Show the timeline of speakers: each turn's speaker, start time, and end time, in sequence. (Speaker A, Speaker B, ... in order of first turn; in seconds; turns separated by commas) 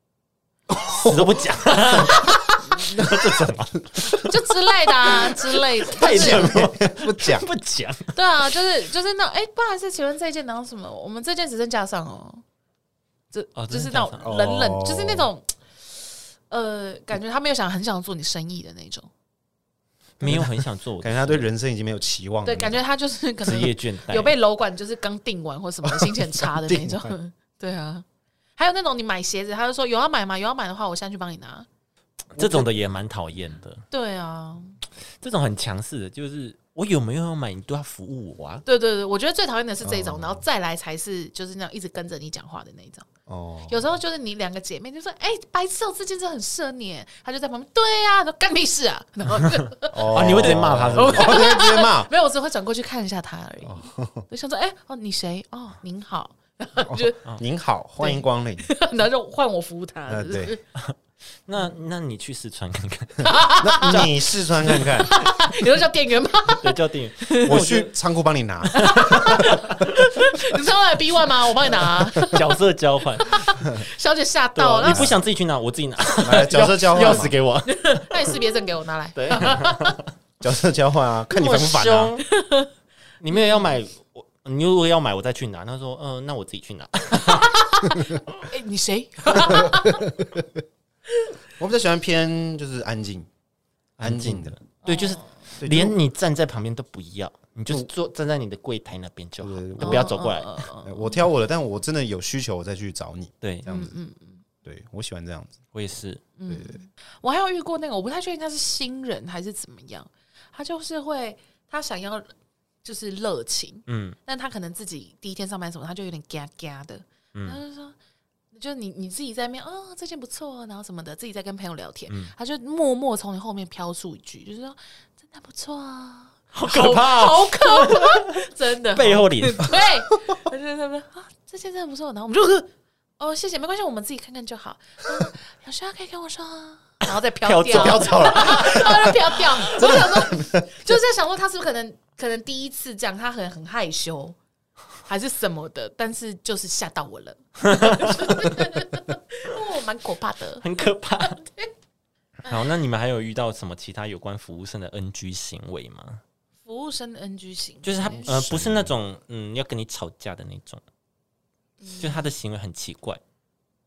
Speaker A: 0.7-1.4, Speaker B: 0.9-8.5, Speaker A: 2.7-3.3, Speaker C: 4.2-6.5, Speaker A: 6.0-7.5, Speaker C: 8.1-12.4, Speaker C: 13.3-15.6, Speaker B: 13.6-14.3, Speaker A: 14.2-15.3, Speaker C: 16.5-19.1, Speaker B: 20.2-21.5, Speaker A: 20.2-22.8, Speaker C: 22.4-28.1, Speaker B: 23.4-24.4, Speaker A: 26.0-27.1, Speaker C: 28.6-31.7, Speaker B: 32.4-33.8, Speaker A: 32.4-32.6, Speaker C: 33.9-34.8, Speaker B: 35.2-38.6, Speaker C: 38.7-43.1, Speaker A: 39.8-40.4, Speaker A: 43.3-43.8, Speaker C: 43.7-57.2, Speaker A: 49.9-52.1, Speaker B: 50.1-51.4, Speaker A: 53.6-54.3, Speaker A: 56.9-58.7, Speaker C: 58.0-60.6, Speaker A: 60.1-60.6, Speaker B: 61.5-64.1, Speaker C: 63.2-67.6, Speaker A: 63.6-65.1, Speaker B: 66.5-67.9, Speaker A: 67.4-69.6, Speaker C: 68.7-72.6, Speaker B: 68.7-69.9, Speaker B: 71.8-73.6, Speaker C: 73.2-75.1, Speaker B: 74.5-78.5, Speaker A: 74.8-75.1, Speaker A: 76.2-77.4, Speaker C: 77.7-80.0, Speaker B: 79.2-80.0, Speaker A: 80.4-82.2, Speaker B: 81.3-82.2, Speaker C: 82.2-82.7, Speaker B: 83.2-87.6, Speaker C: 83.3-83.7, Speaker C: 87.1-90.1, Speaker A: 89.5-90.5, Speaker A: 91.6-93.3, Speaker A: 94.0-94.6, Speaker B: 94.0-100.7, Speaker C: 94.8-95.3, Speaker A: 95.6-96.0, Speaker A: 99.4-100.1, Speaker C: 99.8-101.2, Speaker A: 100.8-103.9, Speaker B: 103.4-103.7, Speaker C: 103.7-104.4, Speaker A: 104.7-105.6, Speaker B: 105.7-106.2, Speaker C: 106.4-112.3, Speaker A: 106.5-106.8, Speaker C: 112.8-118.0, Speaker B: 113.9-114.2, Speaker B: 117.3-117.6, Speaker C: 118.5-144.4, Speaker B: 122.1-122.3, Speaker B: 126.5-129.8, Speaker B: 137.4-139.9, Speaker A: 137.7-139.2, Speaker A: 139.7-140.7, Speaker C: 145.1-150.7, Speaker B: 147.7-148.4, Speaker B: 150.6-151.4, Speaker C: 151.2-151.7, Speaker B: 152.5-156.2, Speaker C: 156.7-158.3, Speaker B: 157.8-160.8, Speaker A: 158.1-158.9, Speaker C: 161.8-162.3, Speaker B: 162.0-163.2